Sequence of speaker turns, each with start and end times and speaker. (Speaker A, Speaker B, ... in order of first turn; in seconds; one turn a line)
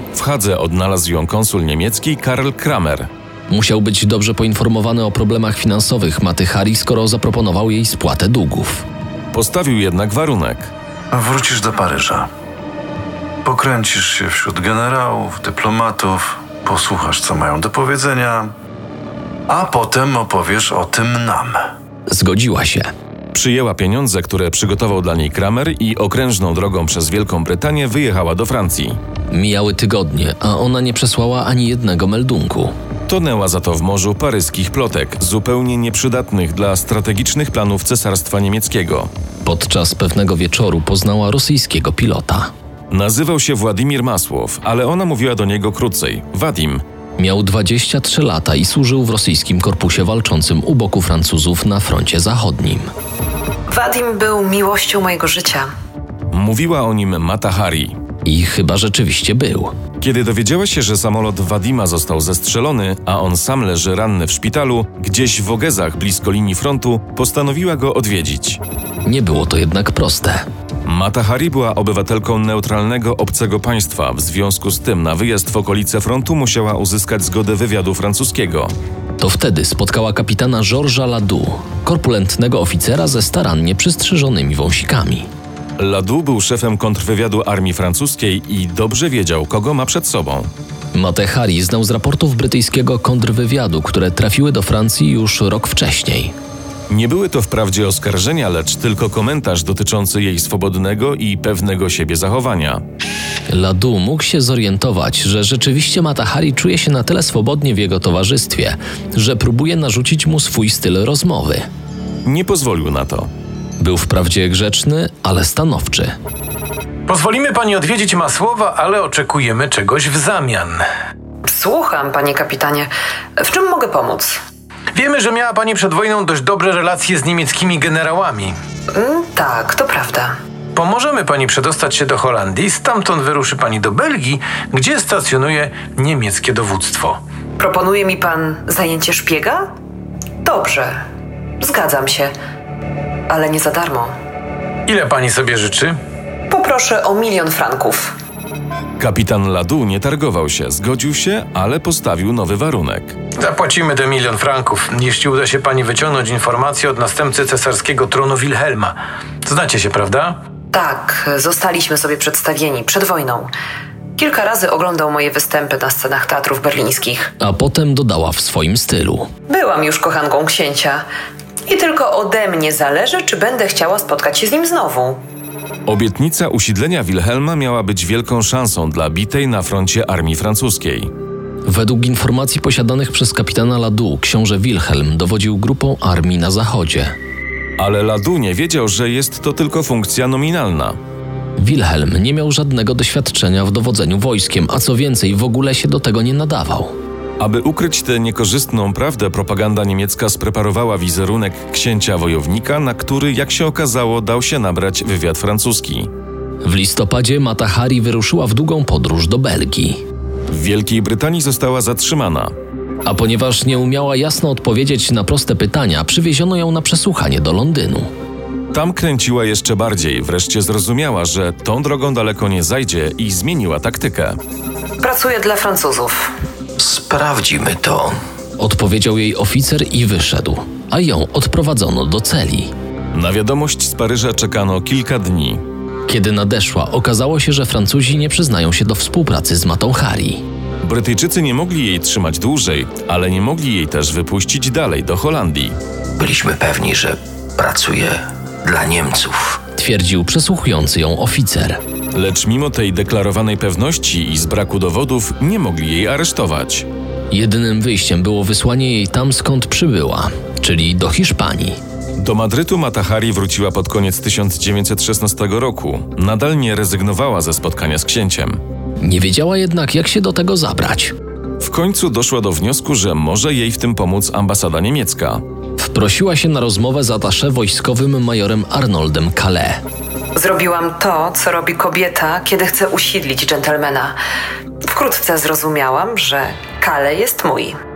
Speaker A: 0.1-3.1
Speaker B: 3.5-8.8
Speaker A: 9.3-10.7
Speaker C: 11.1-12.3
Speaker C: 13.4-18.5
Speaker C: 19.5-21.6
Speaker B: 22.1-22.9
Speaker A: 23.3-29.0
Speaker B: 29.3-32.7
Speaker A: 33.1-39.1
Speaker B: 39.4-42.5
Speaker A: 42.9-46.8
Speaker B: 47.2-52.9
Speaker D: 53.7-55.7
Speaker A: 56.3-58.0
Speaker B: 58.2-59.8
Speaker A: 60.0-68.6
Speaker B: 69.0-70.4
Speaker A: 70.8-78.7
Speaker B: 79.2-85.3
Speaker A: 85.8-90.5
Speaker B: 90.9-96.3
Speaker A: 96.9-102.8
Speaker B: 103.5-111.7
Speaker A: 112.2-113.3
Speaker B: 113.8-116.1
Speaker E: 117.1-120.8
Speaker D: 121.5-124.3
Speaker E: 124.9-128.5
Speaker D: 128.9-130.3
Speaker E: 130.8-137.2
Speaker D: 137.6-139.7
Speaker D: 140.4-141.0
Speaker D: 141.6-142.3
Speaker D: 143.3-144.1
Speaker E: 144.9-145.9
Speaker D: 146.5-148.1
Speaker A: 149.0-153.2
Speaker E: 153.4-158.9
Speaker E: 159.4-160.4
Speaker D: 160.7-163.5
Speaker D: 164.2-167.3
Speaker B: 167.4-169.3
Speaker D: 169.5-171.0
Speaker D: 171.7-175.2
Speaker A: 175.8-181.1
Speaker B: 181.7-187.2
Speaker A: 187.8-191.0
Speaker B: 191.6-196.9
Speaker A: 197.4-206.1
Speaker B: 206.6-210.0
Speaker A: 210.5-212.5
Speaker B: 213.0-218.1
Speaker A: 218.7-224.4
Speaker D: 225.0-226.3
Speaker F: 226.8-228.2
Speaker B: 228.6-232.7
Speaker A: 233.1-235.6
Speaker B: 236.1-240.4
Speaker A: 240.8-245.8
Speaker F: 246.2-249.6
Speaker B: 249.8-251.8
Speaker A: 252.1-256.9
Speaker B: 257.3-261.8
Speaker A: 262.2-268.6
Speaker B: 269.0-271.1
Speaker A: 271.6-275.4
Speaker B: 275.8-279.8
Speaker D: 280.3-284.1
Speaker D: 284.8-287.8